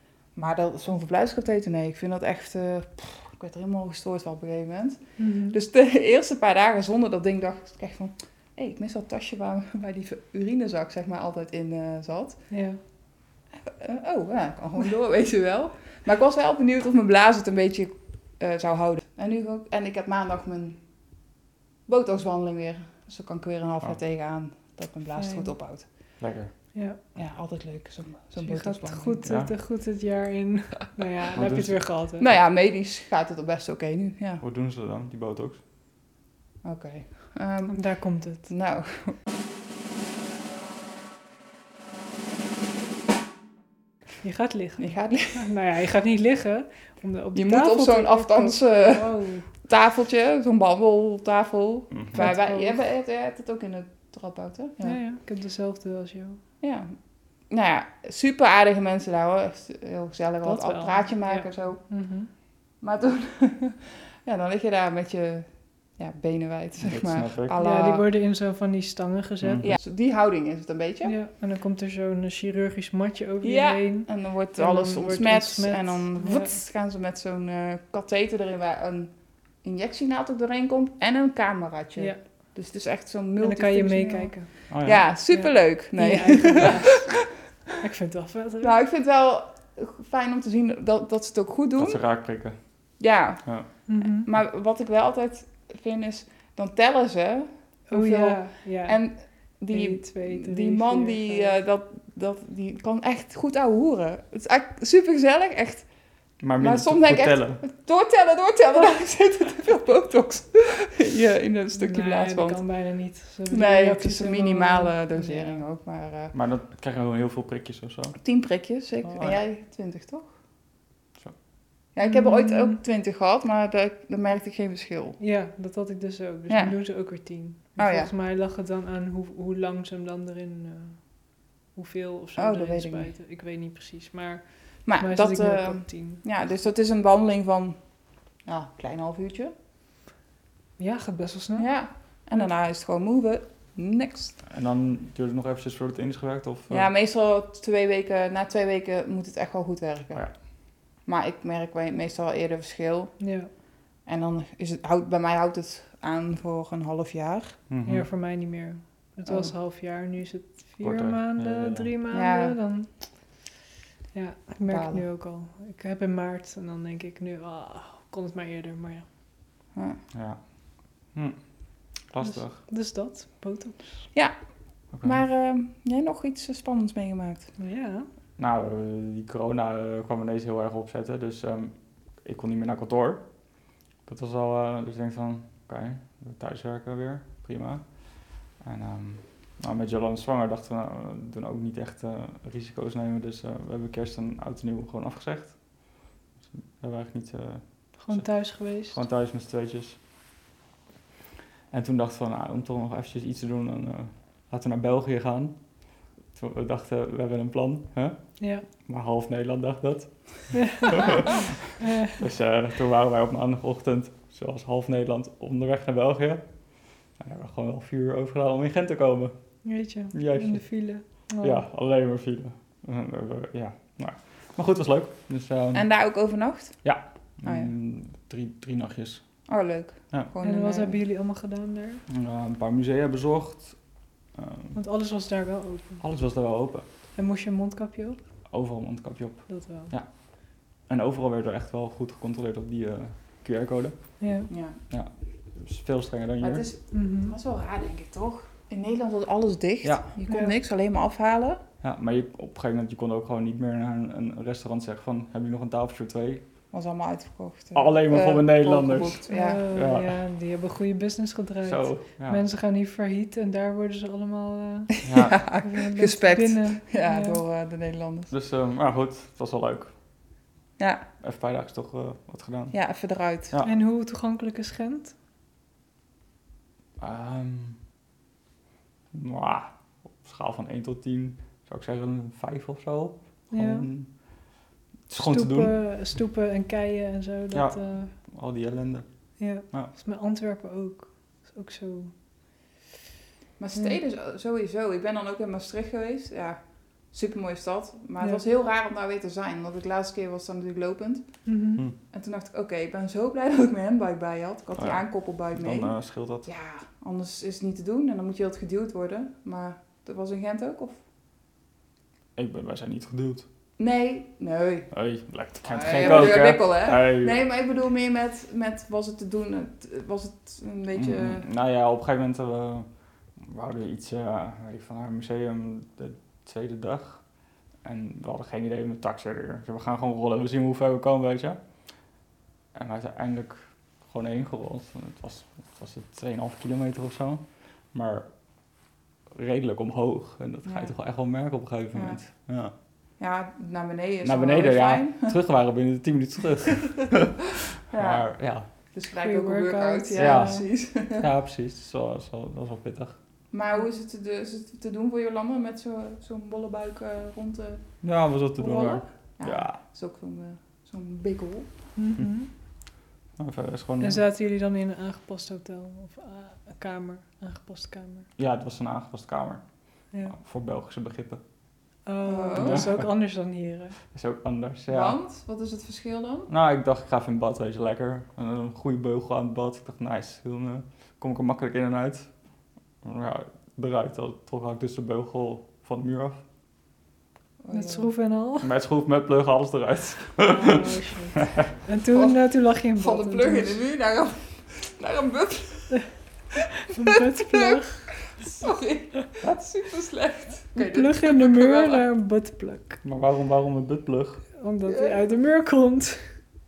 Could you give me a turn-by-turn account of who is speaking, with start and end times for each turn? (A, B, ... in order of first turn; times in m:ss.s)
0:00.4-0:12.4 A
0:05.2-0:05.6 B
0:12.5-0:12.8 B
0:13.6-0:20.8 A
0:21.9-0:25.8 A
0:25.2-0:25.5 B
0:26.2-0:26.5 C
0:26.7-0:27.0 B
0:27.2-0:29.2 A
0:28.4-0:32.2 B
0:29.2-0:29.5 C
0:31.4-0:31.8 C
0:32.2-0:34.4 A
0:34.4-0:35.6 C
0:36.6-0:37.8 A
0:37.7-0:38.5 B
0:38.3-0:39.2 A
0:44.2-0:49.5 B
0:44.8-0:45.5 A
0:47.3-0:49.1 A
0:49.6-0:55.0 A
0:51.9-0:52.3 C
0:52.2-0:52.8 B
0:54.8-0:56.4 B
0:56.6-0:56.9 A
0:57.5-1:01.8 A
1:00.4-1:02.3 B
1:02.8-1:08.0 A
1:06.8-1:07.6 C
1:07.6-1:09.7 B
1:09.4-1:09.8 C
1:09.6-1:11.2 A
1:11.0-1:16.5 B
1:13.4-1:27.1 A
1:23.4-1:24.7 B
1:24.7-1:25.0 C
1:25.3-1:27.2 B
1:27.7-1:28.7 B
1:28.6-1:32.0 A
1:31.8-1:32.6 C
1:33.0-1:45.9 A
1:33.9-1:34.3 B
1:37.9-1:41.5 B
1:46.4-1:47.6 C
1:46.6-1:52.6 A
1:51.8-1:55.6 B
1:53.5-1:56.3 A
1:56.3-1:58.2 C
1:58.2-2:00.3 A
1:59.1-1:59.4 C
2:02.0-2:05.2 A
2:02.0-2:02.8 B
2:05.2-2:16.2 B
2:06.5-2:06.8 A
2:07.8-2:08.1 A
2:12.4-2:13.1 A
2:14.9-2:17.8 A
2:18.4-2:19.5 A
2:20.8-2:21.7 B
2:21.6-2:24.4 A
2:24.5-2:26.9 C
2:26.7-2:30.4 A
2:31.0-2:33.1 A
2:33.2-2:33.5 B
2:34.1-2:37.6 A
2:37.7-2:38.1 C
2:37.9-2:43.4 B
2:39.3-2:39.5 A
2:40.8-2:41.9 C
2:42.1-2:42.6 A
2:44.1-2:49.1 B
2:44.7-2:45.0 A
2:49.8-2:50.0 A
2:50.1-2:50.5 C
2:51.1-2:52.6 C
2:52.2-2:54.1 B
2:54.9-2:55.2 C
2:55.0-2:57.5 A
2:57.6-2:58.1 B
2:58.4-3:03.3 C
3:04.0-3:15.9 C
3:16.5-3:20.0 C
3:18.0-3:19.0 B
3:21.7-3:39.4 C
3:28.4-3:28.6 B
3:30.6-3:31.0 B
3:31.8-3:32.2 B
3:39.6-3:41.6 B
3:40.1-3:45.9 C
3:45.7-3:46.8 A
3:46.8-3:49.3 C
3:47.4-3:47.7 A
3:49.5-3:51.0 A
3:50.4-3:52.0 B
3:52.1-3:53.8 C
3:54.4-3:54.8 C
3:54.8-3:56.0 B
3:56.0-3:56.9 C
3:57.2-3:58.2 B
3:58.5-4:04.1 C
3:59.5-3:59.9 B
4:04.2-4:04.5 B
4:04.5-4:04.8 A
4:04.9-4:06.7 C
4:06.4-4:11.6 A
4:06.9-4:07.4 B
4:09.8-4:10.1 C
4:10.3-4:10.5 B
4:11.8-4:16.4 C
4:16.7-4:19.6 A
4:17.8-4:20.2 C
4:19.3-4:25.1 B
4:21.6-4:22.4 C
4:25.0-4:25.4 C
4:25.1-4:28.3 A
4:25.6-4:27.4 B
4:28.3-4:29.9 C
4:30.8-4:31.0 A
4:31.2-4:32.8 C
4:32.7-4:33.6 A
4:33.6-4:35.2 B
4:37.0-4:37.8 C
4:39.1-4:44.3 C
4:43.5-4:43.9 B
4:45.1-4:45.8 C
4:45.2-4:48.2 B
4:47.5-4:49.9 C
4:49.4-4:52.1 B
4:53.6-5:01.5 A
5:01.5-5:01.8 B
5:02.1-5:11.0 A
5:04.8-5:06.5 C
5:12.4-5:13.5 C
5:13.8-5:14.9 A
5:14.9-5:17.4 C
5:15.6-5:21.5 A
5:20.9-5:27.2 C
5:27.8-5:31.6 C
5:32.7-5:38.3 C
5:39.3-5:42.7 C
5:40.6-5:40.9 A
5:41.9-5:42.2 A
5:43.2-5:45.3 A
5:44.2-5:48.7 C
5:47.9-5:51.3 A
5:49.2-5:50.6 B
5:50.2-5:53.2 C
5:53.5-5:58.0 A
5:58.0-5:59.8 C
5:58.6-6:01.7 A
6:02.0-6:02.5 B
6:03.4-6:04.2 C
6:04.0-6:08.3 B
6:08.4-6:09.6 C
6:10.3-6:11.4 C
6:12.0-6:14.0 B
6:12.2-6:12.9 A
6:12.6-6:13.0 C
6:14.1-6:15.2 C
6:14.9-6:16.5 A
6:16.5-6:22.4 C
6:23.0-6:26.4 C
6:27.6-6:28.1 A
6:27.7-6:28.7 B
6:28.6-6:31.6 C
6:30.4-6:33.8 B
6:32.1-6:32.4 A
6:32.9-6:36.1 A
6:36.9-6:38.4 B
6:37.0-6:42.0 A
6:40.8-6:43.0 B
6:43.0-6:44.4 C
6:44.6-6:46.4 B
6:44.9-6:45.1 A